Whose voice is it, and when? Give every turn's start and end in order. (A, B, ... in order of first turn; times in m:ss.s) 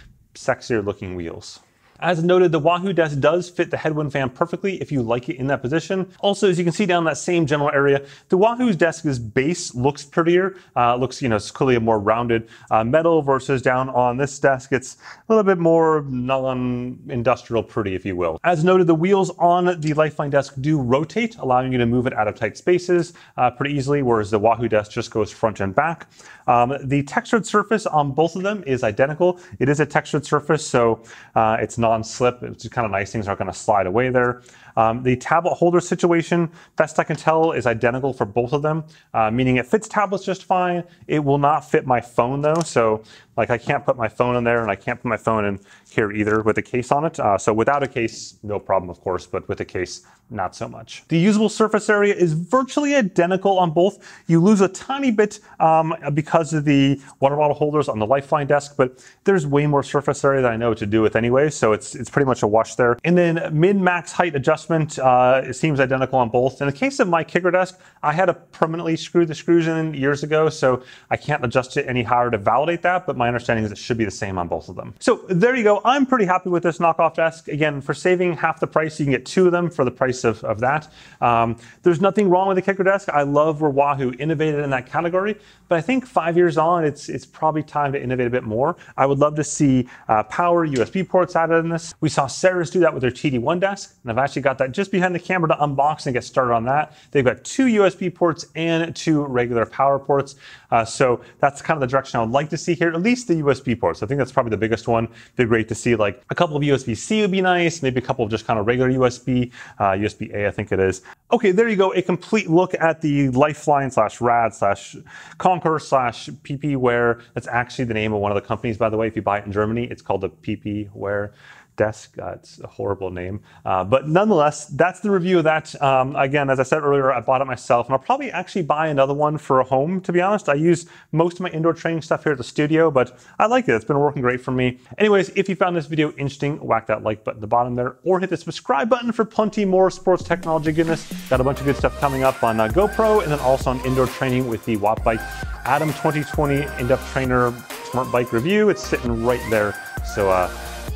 0:00.3-2:30.5 A